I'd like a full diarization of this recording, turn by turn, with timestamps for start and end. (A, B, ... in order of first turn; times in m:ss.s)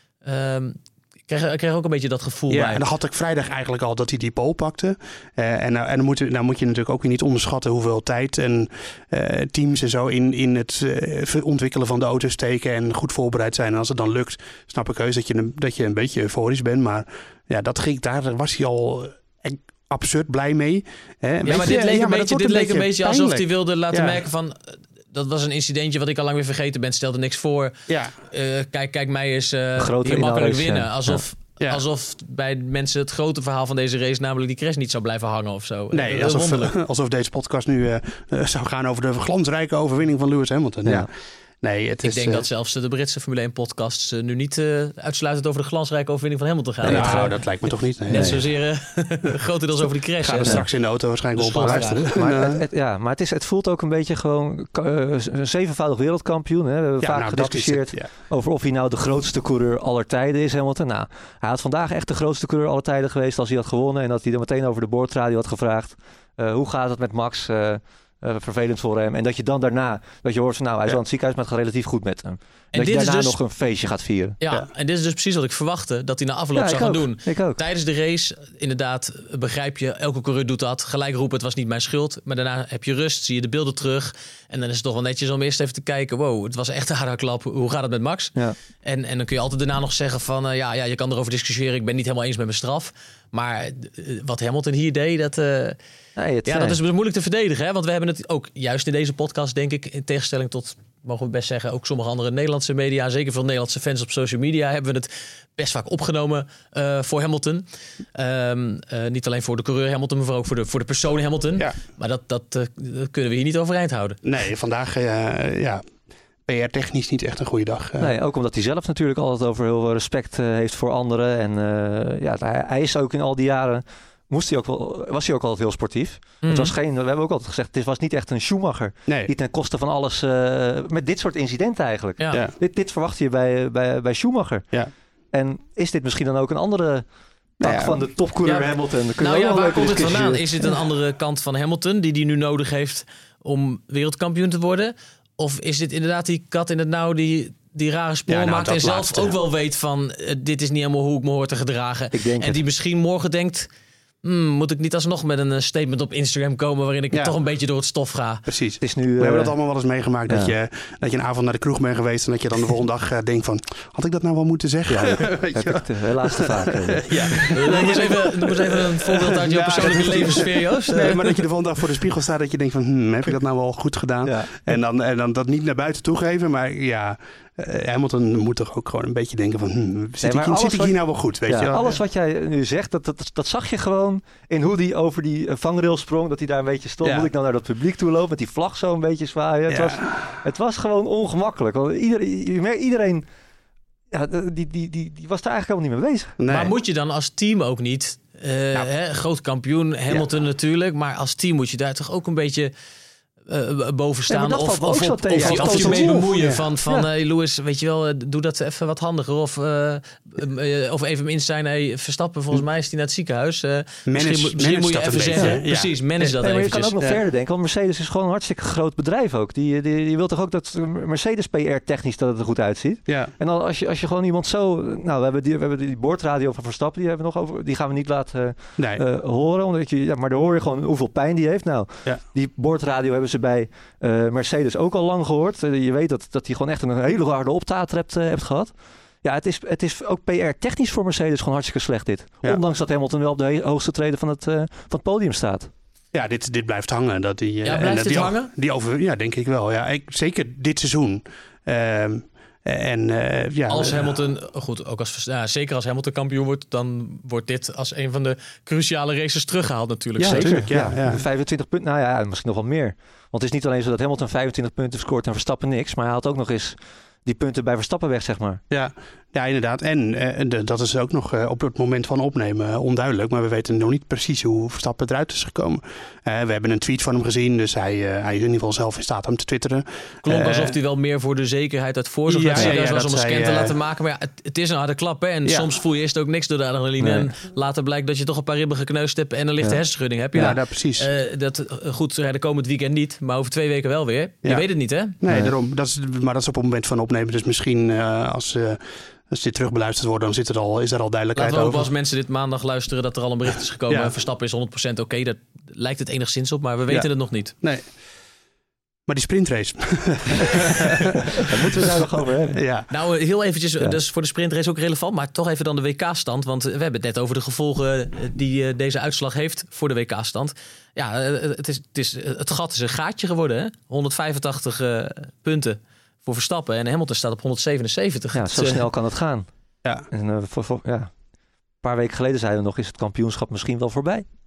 0:00.2-0:02.8 A
0:02.5-0:24.2 B
0:21.4-0:27.7 A
0:27.9-0:28.1 B
0:28.3-0:36.7 A
0:29.8-0:31.2 C
0:35.9-0:41.1 B
0:41.6-0:42.4 B
0:42.0-0:47.4 A
0:46.8-0:47.3 C
0:46.8-0:48.4 B
0:48.1-0:50.6 A
0:48.1-0:48.4 C
0:50.2-0:52.6 B
0:51.4-0:52.0 A
0:51.6-1:14.4 C
0:57.0-0:58.1 B
1:12.7-1:13.4 A
1:14.4-1:35.8 A
1:16.5-1:17.6 C
1:36.2-1:36.8 C
1:36.4-1:54.2 A
1:54.2-1:55.8 B
1:56.5-1:58.1 B
1:58.0-2:14.7 C
2:06.4-2:06.7 A
2:12.2-2:12.4 A
2:15.3-2:17.1 C
2:17.6-2:18.0 B
2:17.6-2:20.4 C
2:18.4-2:33.7 A
2:28.3-2:29.4 B
2:32.1-2:32.6 C
2:34.2-2:38.4 A
2:38.5-3:02.0 B
2:38.8-2:39.5 C
2:40.3-2:40.5 C
2:44.9-2:47.4 C
2:47.4-2:51.4 A
2:49.8-2:50.1 C
2:54.2-2:54.5 C
3:00.2-3:01.0 C
3:01.5-3:13.2 C
3:07.0-3:07.3 B
3:09.7-3:10.4 B
3:14.1-3:16.4 C
3:16.4-3:16.7 B
3:16.5-3:22.7 A
3:23.5-3:36.9 A
3:24.3-3:27.1 C
3:25.3-3:26.6 B
3:34.1-3:35.9 B
3:36.2-4:05.7 C
3:43.1-3:43.3 B
3:48.8-3:49.0 B
4:06.1-4:14.2 B
4:07.6-4:08.5 A
4:13.7-4:20.6 A
4:20.2-4:21.2 B
4:20.2-4:28.6 C
4:28.7-4:40.7 B
4:40.2-4:55.1 A
4:42.3-4:43.7 B
4:47.0-4:47.3 C
4:50.3-4:51.1 B
4:55.2-5:01.9 B
4:55.3-4:55.5 C
5:01.4-5:07.5 A
5:06.9-5:07.9 B
5:09.1-5:12.0 B
5:11.4-5:12.6 C
5:12.5-5:12.9 B
5:12.9-5:28.8 A
5:28.3-5:29.5 C
5:30.1-5:31.1 C
5:31.8-5:34.2 C